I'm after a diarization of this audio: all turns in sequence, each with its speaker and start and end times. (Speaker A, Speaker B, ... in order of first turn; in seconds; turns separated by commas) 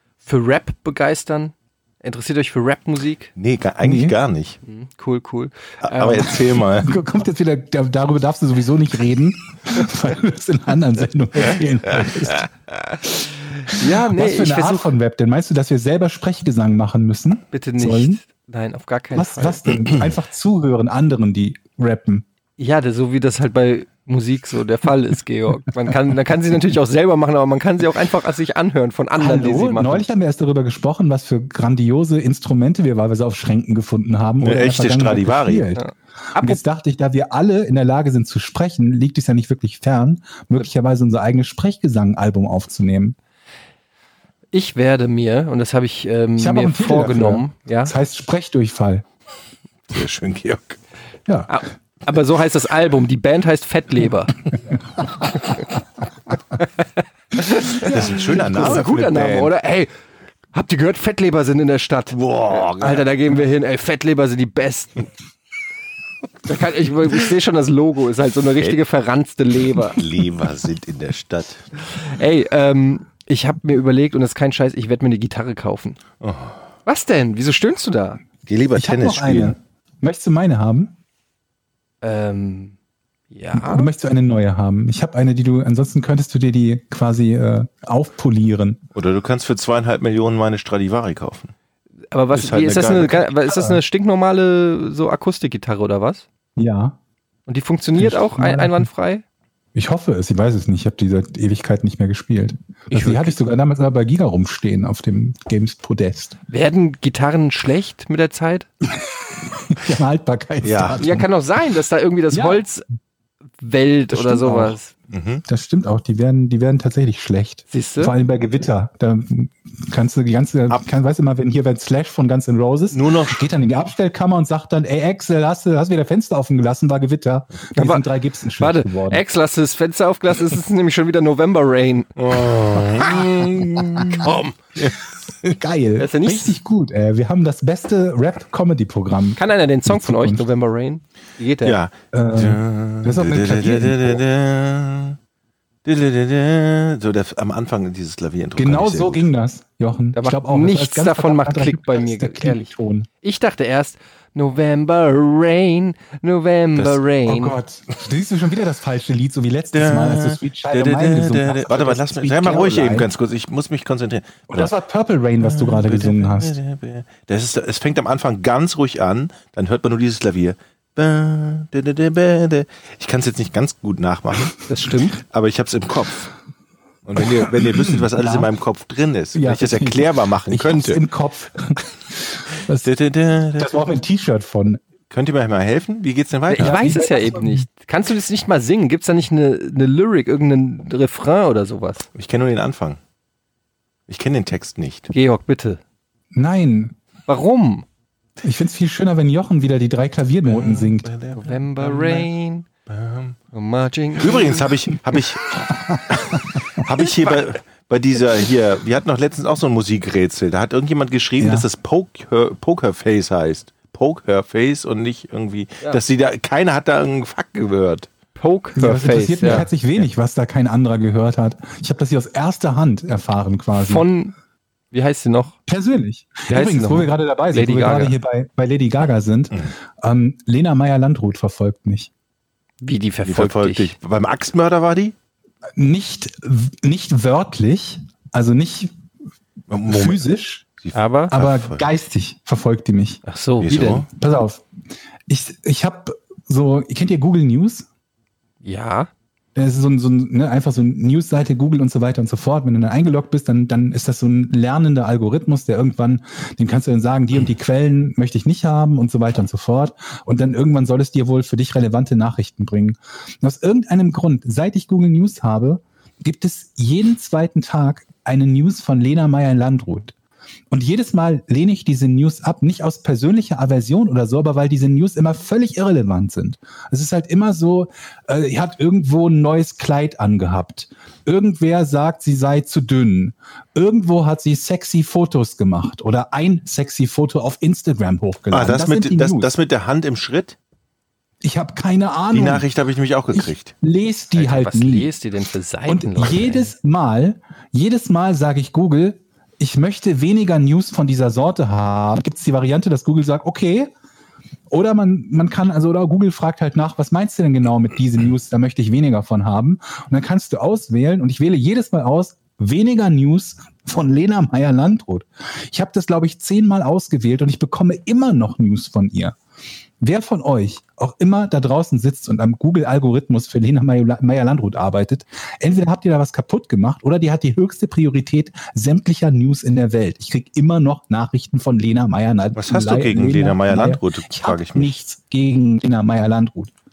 Speaker A: 0.2-3.3, Speaker B: 3.4-4.6, Speaker C: 3.8-4.2, Speaker A: 4.6-6.5, Speaker B: 5.8-7.0, Speaker C: 6.8-12.5, Speaker C: 13.0-18.2, Speaker A: 13.6-14.9, Speaker A: 17.5-19.7, Speaker C: 19.1-22.2, Speaker A: 22.6-30.1, Speaker C: 29.2-35.8, Speaker B: 34.4-35.7, Speaker A: 35.8-36.6, Speaker C: 36.4-43.1, Speaker A: 44.5-47.9, Speaker C: 46.4-49.0, Speaker B: 49.9-50.8, Speaker A: 51.5-54.4, Speaker A: 57.3-59.9, Speaker B: 57.6-59.5, Speaker A: 60.5-65.1, Speaker B: 62.2-63.0, Speaker A: 66.4-70.0, Speaker B: 69.8-71.7, Speaker A: 72.0-76.0, Speaker B: 76.2-76.6, Speaker A: 76.8-78.2, Speaker B: 78.5-79.6, Speaker C: 78.7-80.9, Speaker A: 82.0-82.7, Speaker A: 83.3-83.9, Speaker C: 83.5-88.8, Speaker B: 88.9-91.5, Speaker A: 92.1-96.2, Speaker B: 92.3-93.3, Speaker C: 93.5-93.8, Speaker C: 96.5-97.0, Speaker A: 97.5-99.2, Speaker C: 98.0-98.9, Speaker C: 99.7-106.4, Speaker A: 102.9-103.4, Speaker A: 106.5-108.7, Speaker C: 108.9-111.3, Speaker B: 110.6-111.0, Speaker A: 111.0-112.8, Speaker C: 112.3-112.6, Speaker A: 113.6-114.9, Speaker C: 114.1-114.8, Speaker B: 115.1-115.4, Speaker C: 115.5-129.2, Speaker A: 117.7-118.1, Speaker B: 122.9-123.5, Speaker A: 127.8-128.1, Speaker A: 128.6-134.5, Speaker B: 132.2-135.6, Speaker C: 135.6-140.4, Speaker A: 136.0-136.5, Speaker A: 139.4-141.8, Speaker B: 141.6-145.2, Speaker C: 142.1-144.2, Speaker B: 145.8-149.2, Speaker C: 148.6-153.1, Speaker A: 150.2-152.7, Speaker A: 153.2-157.6, Speaker C: 157.2-163.1, Speaker B: 159.7-164.7, Speaker C: 164.5-166.6, Speaker B: 165.4-174.6, Speaker A: 174.7-175.2, Speaker B: 175.2-176.3, Speaker B: 177.0-181.0, Speaker C: 177.4-178.5, Speaker C: 179.3-182.9, Speaker B: 182.8-183.7, Speaker C: 183.6-184.8, Speaker B: 185.1-186.9, Speaker A: 186.5-192.1, Speaker C: 186.6-187.7, Speaker B: 192.1-193.0, Speaker B: 194.1-195.1, Speaker A: 195.1-195.8, Speaker C: 196.3-196.9, Speaker A: 197.3-197.8, Speaker C: 198.4-201.1, Speaker B: 200.4-202.3, Speaker A: 201.4-202.7, Speaker B: 202.8-203.4, Speaker A: 203.5-204.7, Speaker B: 204.2-205.5, Speaker C: 205.7-206.6, Speaker B: 206.1-218.1, Speaker C: 211.4-211.7, Speaker A: 218.3-219.7, Speaker C: 218.8-224.1, Speaker A: 223.7-224.3, Speaker A: 224.9-225.5, Speaker C: 225.7-232.1, Speaker A: 226.5-228.2, Speaker A: 232.8-233.9, Speaker B: 233.2-235.1, Speaker C: 235.8-238.9, Speaker B: 239.7-240.3, Speaker C: 239.9-240.6, Speaker B: 240.8-241.8, Speaker A: 240.9-241.3, Speaker C: 241.3-243.2, Speaker A: 243.2-244.0, Speaker B: 243.6-244.1, Speaker C: 244.0-244.6, Speaker C: 245.3-247.9, Speaker A: 248.6-249.1, Speaker C: 249.5-270.1, Speaker C: 270.7-289.5, Speaker B: 288.5-290.6, Speaker C: 291.4-292.7, Speaker B: 292.3-293.7, Speaker C: 293.3-295.1, Speaker A: 294.3-296.7, Speaker C: 295.9-303.9, Speaker C: 304.7-319.4, Speaker C: 320.0-336.7, Speaker B: 332.6-335.0